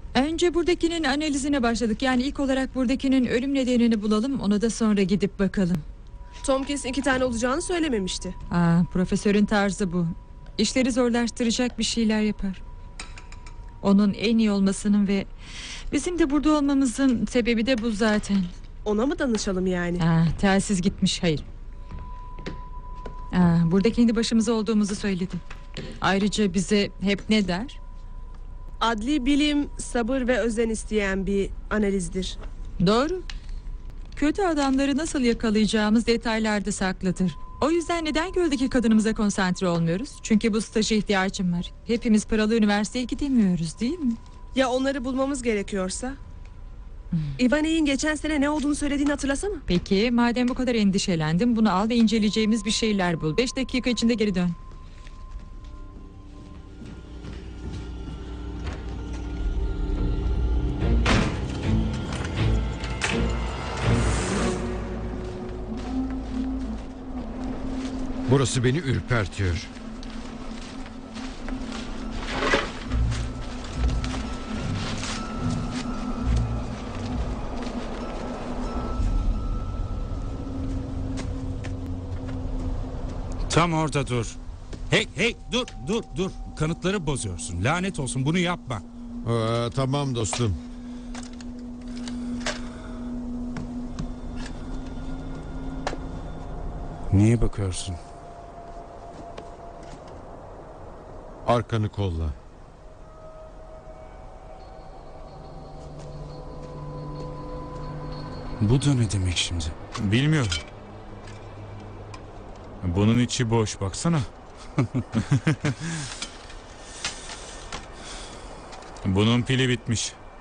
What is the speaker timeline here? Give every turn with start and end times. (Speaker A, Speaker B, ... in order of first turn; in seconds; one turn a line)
Speaker A: 0.1-5.8
Speaker B: 6.4-8.4
Speaker A: 8.5-12.6
Speaker A: 13.8-15.3
Speaker A: 15.9-18.5
Speaker B: 18.9-20.0
Speaker A: 20.0-21.4
Speaker A: 23.3-25.4
Speaker A: 26.0-27.8
Speaker B: 28.8-32.4
Speaker A: 32.8-33.3
Speaker A: 34.1-44.2
Speaker B: 44.5-46.2
Speaker B: 47.4-49.6
Speaker A: 49.7-54.6
Speaker C: 68.3-69.7
Speaker D: 83.5-84.4
Speaker D: 84.9-88.8
Speaker C: 89.2-90.6
Speaker D: 97.1-98.0
Speaker C: 101.5-102.4
Speaker D: 108.6-109.8
Speaker E: 110.0-110.6
Speaker E: 112.8-114.3
Speaker E: 115.4-115.7
Speaker E: 119.0-120.2